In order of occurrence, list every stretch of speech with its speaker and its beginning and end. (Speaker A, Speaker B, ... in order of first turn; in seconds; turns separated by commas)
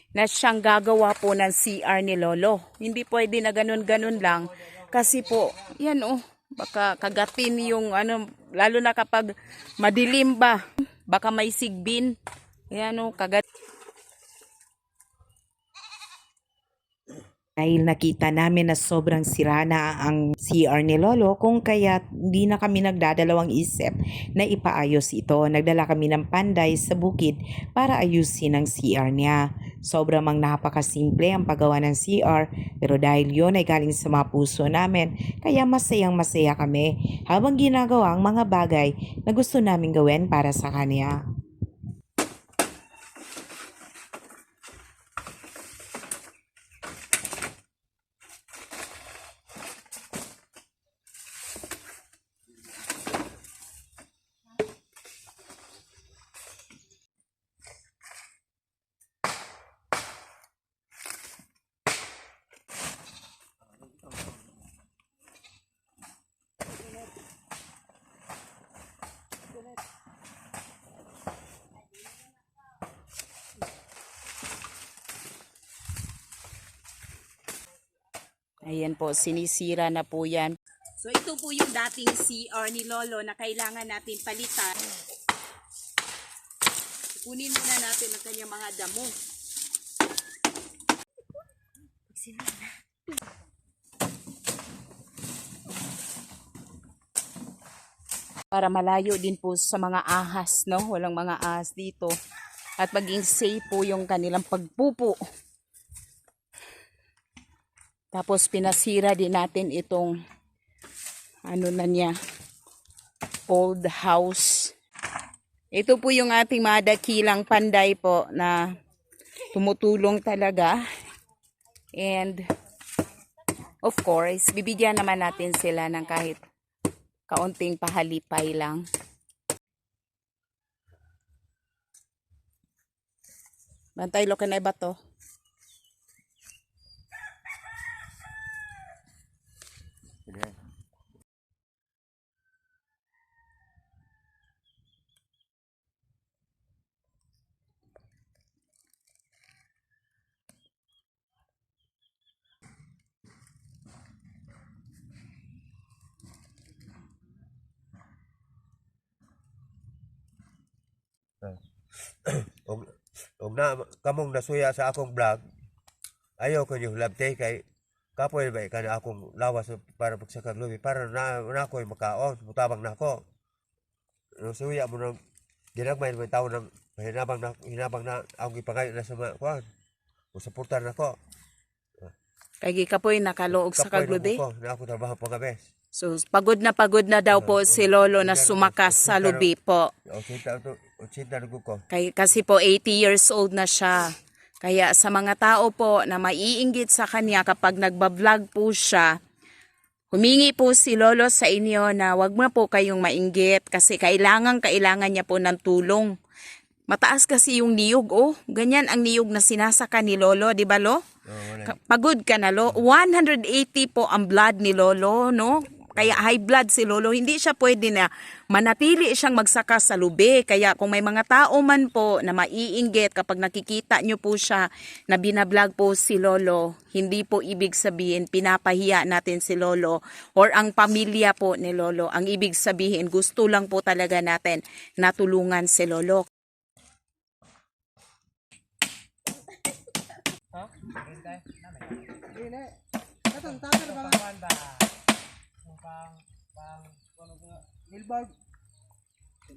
Speaker A: 0.1-12.2, Speaker A: 12.7-13.4, Speaker B: 17.6-41.2, Speaker A: 78.6-84.9, Speaker A: 87.2-89.2, Speaker A: 98.5-102.2, Speaker A: 102.8-105.2, Speaker A: 108.1-110.2, Speaker A: 111.5-112.2, Speaker A: 113.5-114.7, Speaker A: 115.7-118.8, Speaker A: 119.5-120.8, Speaker A: 121.9-122.4, Speaker A: 123.8-126.5, Speaker A: 127.3-128.8, Speaker A: 134.0-135.0, Speaker C: 140.3-140.6, Speaker C: 161.4-165.4, Speaker C: 166.4-167.6, Speaker C: 168.2-173.2, Speaker C: 174.4-175.2, Speaker C: 175.8-179.7, Speaker C: 180.3-181.2, Speaker A: 182.6-184.4, Speaker C: 183.5-185.7, Speaker A: 185.9-189.9, Speaker C: 187.3-189.5, Speaker C: 190.1-191.8, Speaker A: 191.9-199.2, Speaker A: 200.1-206.1, Speaker A: 206.9-211.0, Speaker C: 211.3-211.8, Speaker A: 211.6-236.3, Speaker C: 216.0-216.2, Speaker A: 243.5-244.4